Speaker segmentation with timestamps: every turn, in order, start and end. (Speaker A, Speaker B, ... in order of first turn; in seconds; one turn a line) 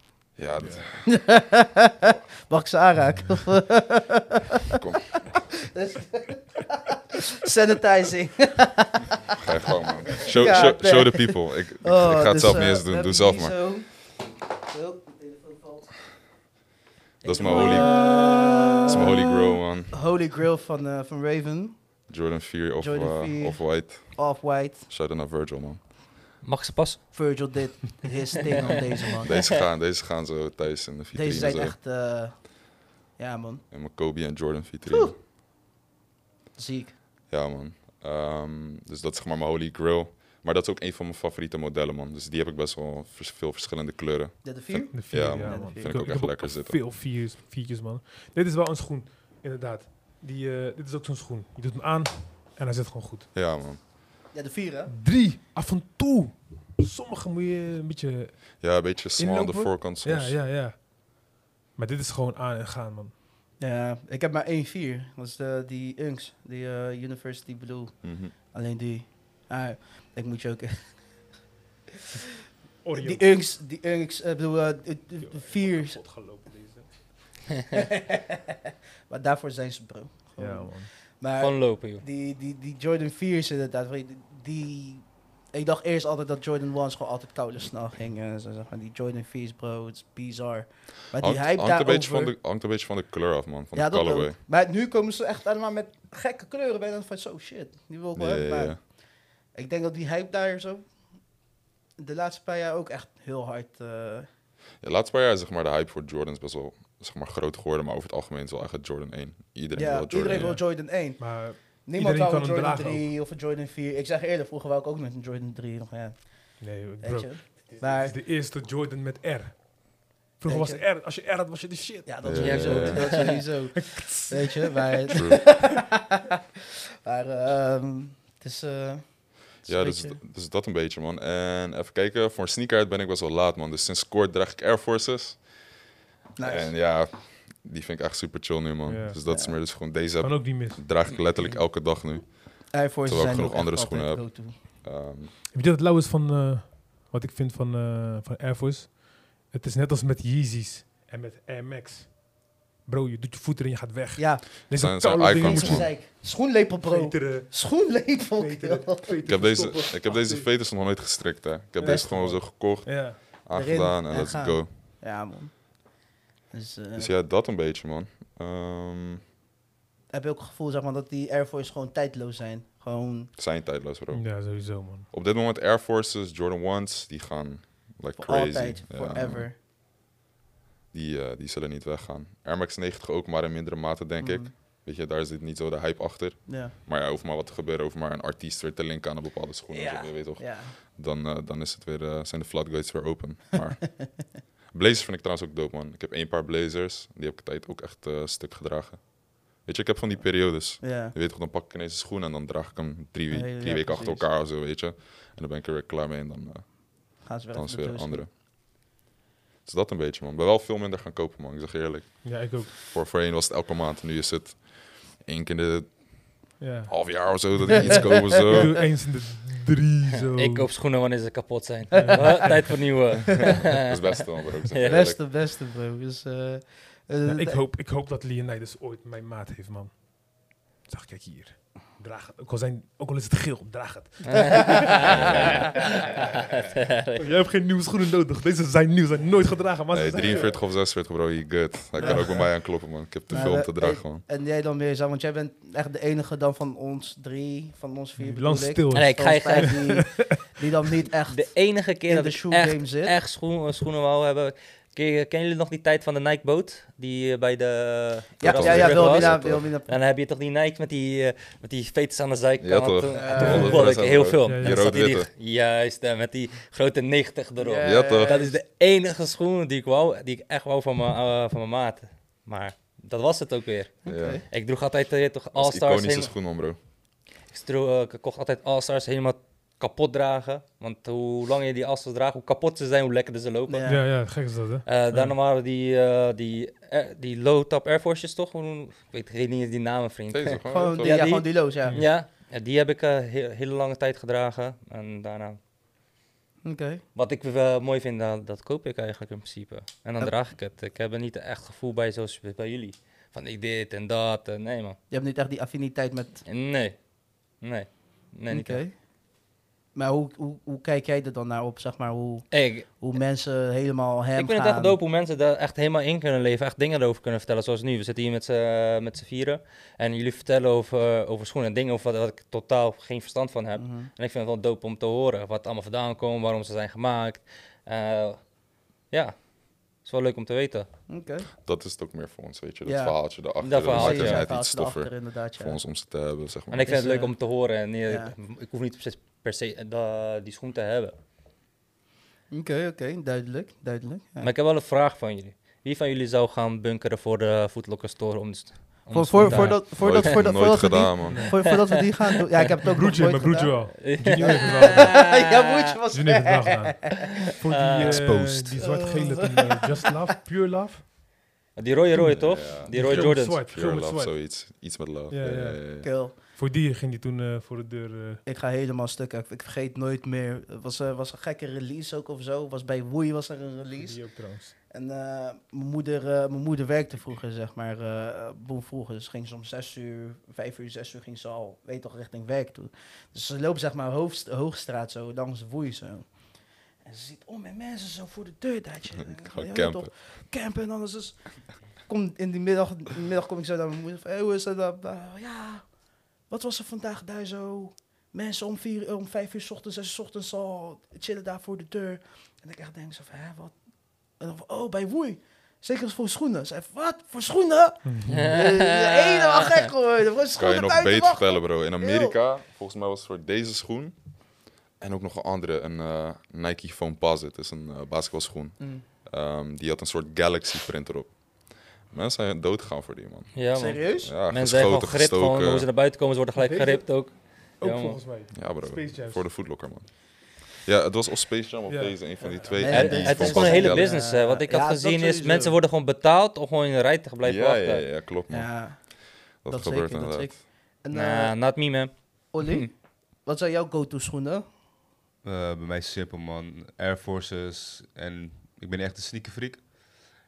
Speaker A: 0.4-1.2
Speaker B: 0.6-0.9
Speaker C: 1.0-4.4
Speaker A: 4.7-5.4
Speaker C: 5.7-9.3
Speaker A: 9.4-13.8
Speaker C: 10.1-16.0
Speaker C: 17.2-22.0
Speaker A: 17.2-20.0
Speaker A: 22.1-25.8
Speaker C: 22.8-24.9
Speaker D: 26.4-27.0
Speaker C: 27.1-29.4
Speaker A: 29.2-31.8
Speaker C: 31.1-33.6
Speaker A: 33.7-35.2
Speaker C: 34.9-35.1
Speaker C: 36.6-37.0
Speaker A: 37.3-46.9
Speaker C: 44.4-46.2
Speaker B: 44.9-53.3
Speaker A: 53.3-53.9
Speaker C: 54.3-54.9
Speaker B: 54.9-58.6
Speaker A: 58.6-60.5
Speaker B: 59.1-60.8
Speaker B: 61.8-63.1
Speaker C: 63.6-71.2
Speaker A: 68.0-68.3
Speaker B: 72.8-73.5
Speaker C: 72.9-76.1
Speaker B: 75.2-77.0
Speaker C: 77.7-78.6
Speaker C: 79.1-92.3
Speaker B: 80.4-81.1
Speaker D: 81.4-82.0
Speaker A: 91.2-94.4
Speaker C: 93.7-100.9
Speaker A: 98.1-98.8
Speaker C: 102.0-104.3
Speaker A: 104.8-110.6
Speaker C: 109.7-118.2
Speaker B: 110.2-113.1
Speaker B: 116.6-125.6
Speaker C: 120.4-120.9
Speaker C: 122.0-126.3
Speaker A: 122.2-123.2
Speaker D: 122.4-123.4
Speaker A: 125.1-125.4
Speaker C: 127.0-130.2
Speaker A: 129.6-135.7
Speaker C: 136.4-136.8
Speaker A: 136.4-145.3
Speaker B: 138.9-141.0
Speaker C: 139.2-139.6
Speaker C: 142.7-144.6
Speaker B: 145.5-152.3
Speaker B: 152.8-160.5
Speaker C: 154.2-159.1
Speaker A: 154.7-155.9
Speaker A: 159.2-164.7
Speaker B: 161.8-163.2
Speaker C: 161.8-162.4
Speaker C: 163.5-166.0
Speaker C: 166.5-167.1
Speaker A: 167.0-169.2
Speaker C: 170.1-173.3
Speaker A: 173.4-179.5
Speaker B: 174.1-175.1
Speaker C: 178.2-179.5
Speaker A: 180.9-208.3
Speaker C: 184.2-184.5
Speaker C: 186.5-186.7
Speaker C: 189.7-190.8
Speaker C: 200.6-201.1
Speaker C: 203.3-204.3
Speaker C: 207.2-208.2
Speaker A: 209.7-218.9
Speaker B: 212.2-212.7
Speaker B: 216.6-220.7
Speaker C: 217.7-218.6
Speaker D: 220.3-225.1
Speaker B: 221.9-222.9
Speaker C: 222.1-222.3
Speaker A: 223.7-225.2
Speaker C: 224.8-227.6
Speaker B: 227.3-230.1
Speaker B: 230.8-235.7
Speaker D: 234.2-237.2
Speaker A: 235.1-235.7
Speaker B: 237.2-240.6
Speaker A: 239.9-244.2
Speaker B: 242.0-242.5
Speaker C: 242.0-242.5
Speaker C: 243.3-253.1
Speaker B: 248.2-250.4
Speaker D: 248.9-249.9
Speaker D: 251.3-276.3
Speaker C: 258.4-259.9
Speaker A: 258.4-259.7
Speaker A: 262.6-265.3
Speaker C: 263.1-263.9
Speaker B: 263.4-263.7
Speaker B: 264.4-264.8
Speaker C: 267.6-268.6
Speaker A: 267.8-268.4
Speaker C: 274.1-274.4
Speaker A: 274.1-274.4
Speaker A: 275.5-276.8
Speaker D: 277.5-284.3
Speaker C: 283.7-284.1
Speaker B: 283.9-285.4
Speaker D: 284.9-295.6
Speaker A: 290.3-291.4
Speaker C: 290.7-292.0
Speaker B: 291.8-292.1
Speaker C: 296.6-297.0
Speaker D: 297.1-305.0
Speaker C: 305.1-306.4
Speaker D: 306.4-307.0
Speaker D: 307.6-308.8
Speaker C: 308.5-308.9
Speaker C: 309.9-315.0
Speaker D: 312.5-313.1
Speaker D: 314.4-328.6
Speaker C: 323.8-324.1
Speaker D: 329.1-330.9
Speaker C: 331.1-331.5
Speaker A: 331.6-337.0
Speaker C: 332.9-335.8
Speaker D: 333.6-334.4
Speaker D: 336.7-341.1
Speaker C: 336.9-337.4
Speaker C: 338.1-338.3
Speaker C: 342.5-344.5
Speaker D: 344.4-350.3
Speaker C: 349.1-357.2
Speaker B: 349.4-349.8
Speaker A: 349.9-351.7
Speaker B: 351.2-351.6
Speaker B: 352.9-355.3
Speaker D: 354.0-355.7
Speaker B: 356.1-361.1
Speaker D: 357.6-358.2
Speaker E: 358.0-359.0
Speaker C: 358.8-360.1
Speaker D: 361.7-363.6
Speaker B: 362.1-364.4
Speaker A: 362.3-366.1
Speaker B: 365.3-368.4
Speaker C: 366.0-366.4
Speaker C: 368.4-386.4
Speaker B: 373.9-374.7
Speaker C: 387.0-395.9
Speaker A: 389.2-390.1
Speaker C: 396.5-403.8
Speaker C: 404.4-412.4
Speaker B: 408.0-408.5
Speaker D: 408.3-409.8
Speaker A: 410.6-414.2
Speaker A: 415.0-425.9
Speaker C: 418.8-419.0
Speaker D: 423.5-428.2
Speaker C: 423.7-424.3
Speaker B: 426.5-429.5
Speaker A: 428.5-434.2
Speaker B: 431.9-432.9
Speaker C: 432.6-435.8
Speaker D: 432.9-438.1
Speaker A: 437.4-440.6
Speaker C: 438.5-441.6
Speaker D: 441.1-442.9
Speaker C: 442.5-444.6
Speaker E: 445.4-449.9